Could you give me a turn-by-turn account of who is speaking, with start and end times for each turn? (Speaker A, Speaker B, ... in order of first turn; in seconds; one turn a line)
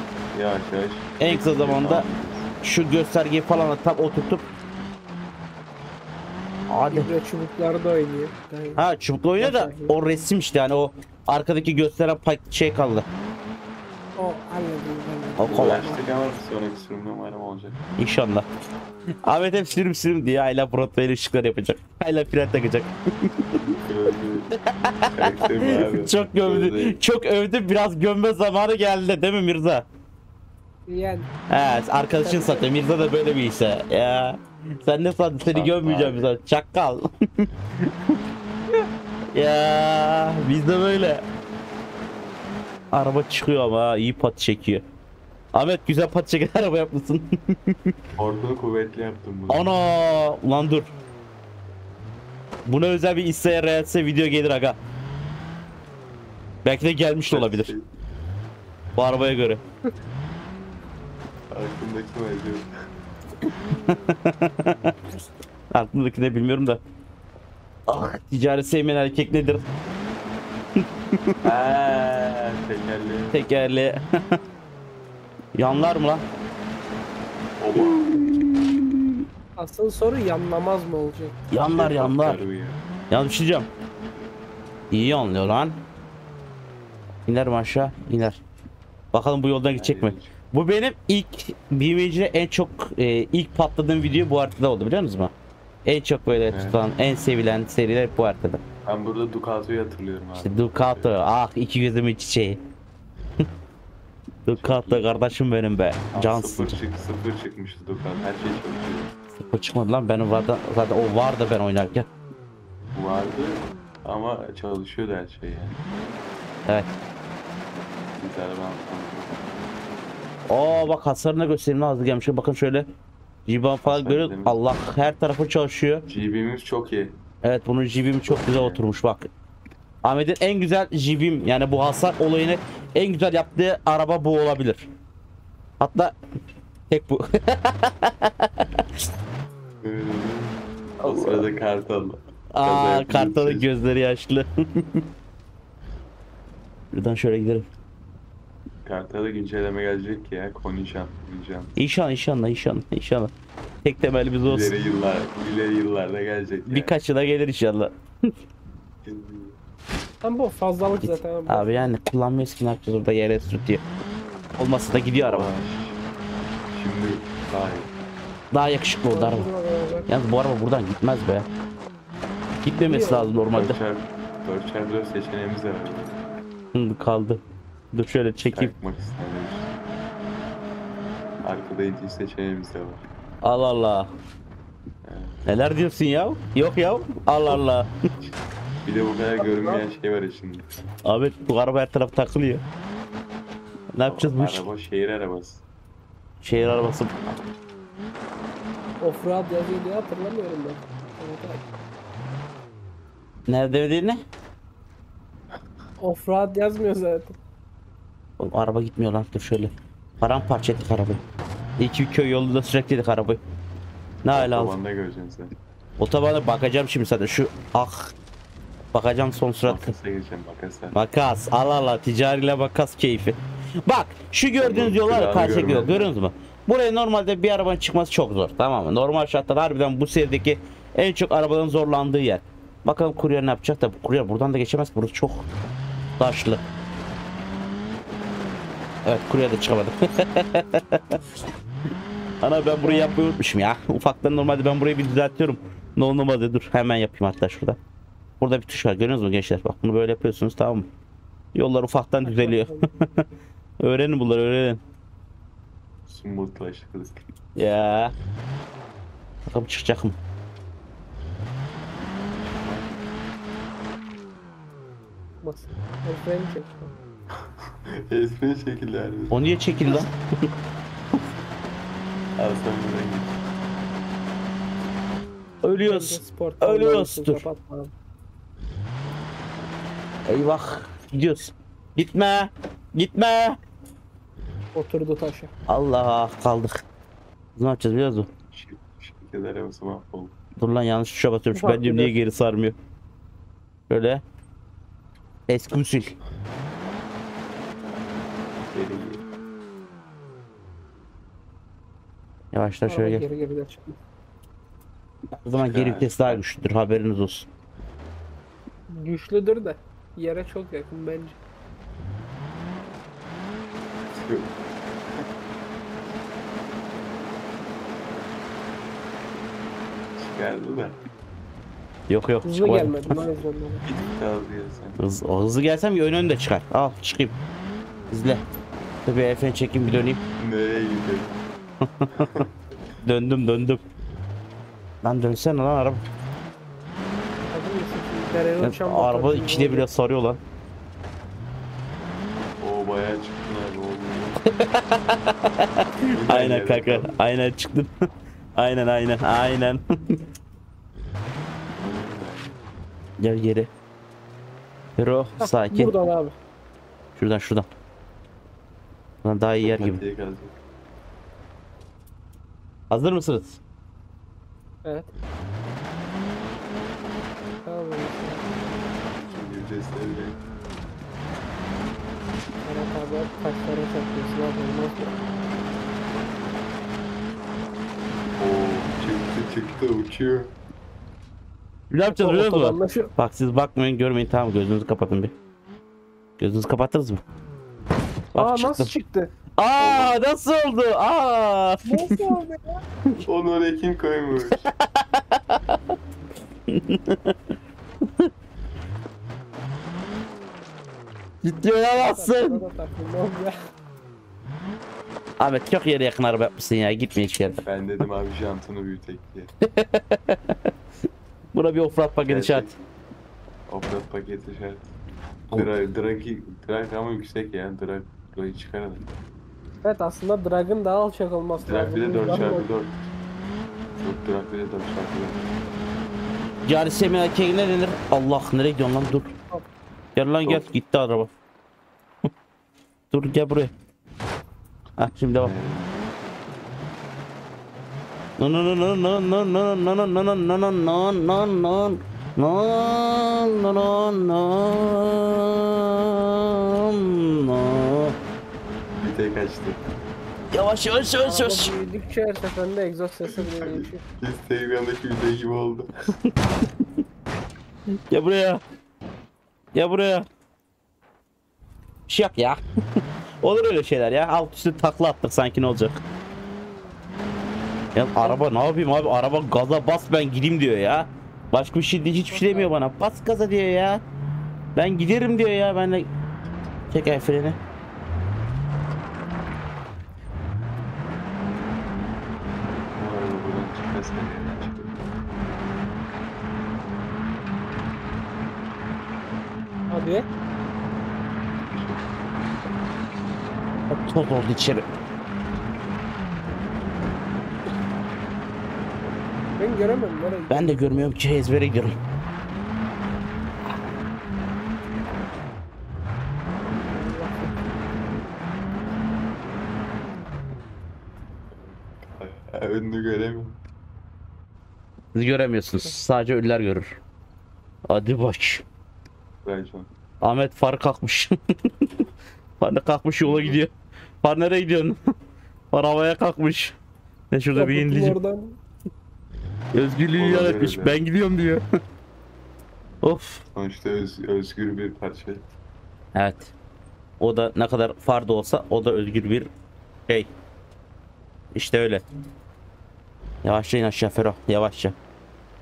Speaker A: 0.3-2.5
Speaker B: 1.2-2.0
Speaker B: 2.6-4.4
Speaker B: 6.7-7.1
Speaker C: 6.9-8.8
Speaker B: 8.8-13.1
Speaker C: 9.4-9.9
Speaker C: 14.2-16.0
Speaker B: 15.4-15.9
Speaker A: 15.5-17.8
Speaker B: 18.0-18.5
Speaker B: 19.2-23.6
Speaker A: 23.6-24.5
Speaker B: 24.8-29.9
Speaker A: 25.1-27.0
Speaker C: 30.9-31.3
Speaker B: 31.5-38.2
Speaker C: 32.2-32.8
Speaker A: 35.5-36.3
Speaker B: 39.3-41.2
Speaker B: 42.9-44.8
Speaker B: 45.5-47.9
Speaker A: 48.2-49.7
Speaker B: 49.5-50.9
Speaker B: 52.7-54.8
Speaker B: 56.6-57.7
Speaker A: 57.3-57.9
Speaker B: 59.0-59.6
Speaker A: 61.5-62.7
Speaker B: 64.1-65.0
Speaker B: 65.7-66.8
Speaker B: 67.9-69.6
Speaker B: 70.8-71.3
Speaker A: 71.4-73.5
Speaker B: 73.3-74.4
Speaker B: 75.5-76.2
Speaker A: 77.6-78.3
Speaker B: 77.8-79.2
Speaker C: 79.6-81.4
Speaker B: 81.5-82.4
Speaker A: 81.6-82.8
Speaker B: 83.1-83.7
Speaker B: 84.9-85.8
Speaker B: 87.3-88.4
Speaker B: 89.1-95.3
Speaker A: 89.8-90.3
Speaker B: 95.8-98.6
Speaker A: 96.5-96.8
Speaker A: 98.8-101.2
Speaker B: 100.4-102.6
Speaker B: 104.5-106.8
Speaker A: 104.5-105.2
Speaker A: 106.1-109.1
Speaker B: 109.4-112.1
Speaker A: 113.0-115.8
Speaker A: 118.2-119.6
Speaker B: 120.5-122.9
Speaker B: 123.5-126.1
Speaker A: 123.8-124.6
Speaker A: 126.1-127.2
Speaker B: 127.4-129.3
Speaker A: 128.3-128.8
Speaker B: 130.0-134.9
Speaker B: 135.8-136.2
Speaker B: 136.9-139.0
Speaker A: 139.8-143.7
Speaker B: 141.0-141.5
Speaker B: 142.5-145.1
Speaker B: 146.9-147.7
Speaker A: 148.8-151.7
Speaker B: 151.8-153.3
Speaker B: 153.8-154.7
Speaker A: 154.5-156.9
Speaker B: 156.7-158.3
Speaker A: 159.0-159.6
Speaker C: 160.2-161.8
Speaker B: 161.0-163.8
Speaker B: 164.6-165.5
Speaker A: 165.1-166.0
Speaker A: 166.7-167.9
Speaker B: 168.5-169.5
Speaker C: 169.1-170.1
Speaker B: 170.1-171.5
Speaker B: 172.6-173.8
Speaker C: 172.9-173.4
Speaker A: 173.5-176.2
Speaker B: 176.7-177.4
Speaker B: 177.9-178.7
Speaker A: 178.5-179.7
Speaker A: 181.4-183.0
Speaker B: 183.4-184.1
Speaker A: 185.0-185.4
Speaker B: 185.5-187.9
Speaker A: 188.2-190.7
Speaker C: 189.5-189.8
Speaker B: 191.1-192.6
Speaker B: 193.9-194.7
Speaker A: 194.1-195.6
Speaker B: 196.4-197.1
Speaker C: 199.0-201.6
Speaker B: 203.5-204.2
Speaker C: 206.0-207.3
Speaker B: 208.4-211.2
Speaker B: 211.8-213.4
Speaker B: 214.2-214.7
Speaker A: 214.3-215.6
Speaker B: 216.0-218.1
Speaker B: 218.9-219.9
Speaker A: 219.6-221.0
Speaker B: 220.9-235.5
Speaker A: 224.6-226.1
Speaker B: 236.2-236.7
Speaker B: 239.1-241.2
Speaker B: 242.4-247.8
Speaker C: 242.8-243.2
Speaker B: 248.4-250.9
Speaker B: 251.5-253.2
Speaker C: 252.2-252.9
Speaker B: 253.8-254.8
Speaker A: 256.1-257.2
Speaker B: 257.6-258.1
Speaker B: 259.5-260.2
Speaker A: 261.9-263.1
Speaker C: 265.4-266.9
Speaker A: 267.3-269.5
Speaker B: 269.3-270.1
Speaker A: 272.4-273.4
Speaker B: 275.6-277.4
Speaker C: 275.6-277.9
Speaker B: 280.3-283.6
Speaker C: 284.7-285.5
Speaker B: 285.7-286.8
Speaker B: 287.6-288.3
Speaker A: 288.5-290.4
Speaker B: 290.6-292.8
Speaker C: 291.5-292.1
Speaker B: 293.9-294.2
Speaker B: 295.5-296.1
Speaker A: 298.7-299.2
Speaker B: 302.5-303.2
Speaker C: 302.9-304.0
Speaker B: 305.4-307.5
Speaker A: 305.5-306.4
Speaker C: 308.9-311.4
Speaker A: 314.1-314.5
Speaker A: 320.2-321.0
Speaker B: 322.1-323.2
Speaker C: 322.4-323.8
Speaker A: 323.8-325.0
Speaker B: 325.0-327.4
Speaker B: 328.1-328.4
Speaker B: 329.1-330.2
Speaker A: 330.4-331.4
Speaker B: 331.8-332.3
Speaker A: 332.1-332.5
Speaker B: 333.0-333.8
Speaker B: 335.0-336.0
Speaker C: 337.5-339.9
Speaker B: 338.6-340.4
Speaker A: 342.6-344.4
Speaker B: 344.5-347.9
Speaker A: 346.1-347.1
Speaker B: 348.6-350.2
Speaker A: 351.8-352.6
Speaker B: 353.2-353.7
Speaker B: 355.0-355.9
Speaker C: 355.4-356.4
Speaker B: 357.2-357.7
Speaker B: 359.2-360.0
Speaker A: 359.6-360.6
Speaker B: 362.9-363.6
Speaker C: 364.8-365.1
Speaker C: 367.6-368.8
Speaker A: 369.2-370.4
Speaker C: 372.6-375.2
Speaker A: 378.4-380.6
Speaker B: 381.9-385.3
Speaker C: 382.1-383.1
Speaker B: 386.4-387.2
Speaker B: 388.3-388.9
Speaker C: 388.4-389.3
Speaker B: 389.6-392.4
Speaker A: 389.8-390.2
Speaker C: 391.9-392.8
Speaker A: 393.2-394.7
Speaker B: 394.5-396.0
Speaker B: 396.7-397.4
Speaker B: 398.0-398.3
Speaker B: 401.4-402.6
Speaker C: 401.9-403.6
Speaker B: 405.4-407.6
Speaker A: 407.6-409.5
Speaker B: 409.6-410.7
Speaker B: 411.5-412.7
Speaker A: 412.2-412.9
Speaker A: 413.7-414.9
Speaker A: 415.5-419.1
Speaker C: 419.8-422.7
Speaker A: 421.6-423.0
Speaker A: 424.0-425.5
Speaker B: 426.7-429.3
Speaker B: 430.2-431.3
Speaker B: 433.1-433.7
Speaker B: 435.0-435.5
Speaker A: 435.4-436.0
Speaker B: 438.4-448.2
Speaker A: 449.0-449.8
Speaker B: 450.5-451.7
Speaker C: 451.2-454.0
Speaker A: 453.3-455.9
Speaker B: 458.1-458.6
Speaker B: 459.7-460.3
Speaker B: 462.1-466.0
Speaker B: 467.9-474.0
Speaker C: 472.3-472.7
Speaker B: 474.8-476.1
Speaker B: 476.9-477.6
Speaker A: 483.0-485.0
Speaker C: 489.9-490.3
Speaker A: 491.7-492.0
Speaker B: 493.9-494.9
Speaker C: 499.6-501.1
Speaker B: 500.5-502.0
Speaker C: 506.7-507.6
Speaker A: 511.5-513.6
Speaker B: 515.1-517.0
Speaker B: 517.9-518.6
Speaker A: 519.4-519.9
Speaker B: 520.2-522.0
Speaker B: 522.6-523.7
Speaker A: 523.2-523.6
Speaker B: 524.2-525.0
Speaker B: 525.7-526.8
Speaker B: 527.3-528.2
Speaker C: 527.5-528.6
Speaker B: 529.7-531.6
Speaker A: 530.1-531.0
Speaker B: 533.0-533.4
Speaker A: 533.5-535.5
Speaker B: 536.1-536.5
Speaker B: 537.2-539.5
Speaker B: 541.5-542.0
Speaker B: 543.4-545.0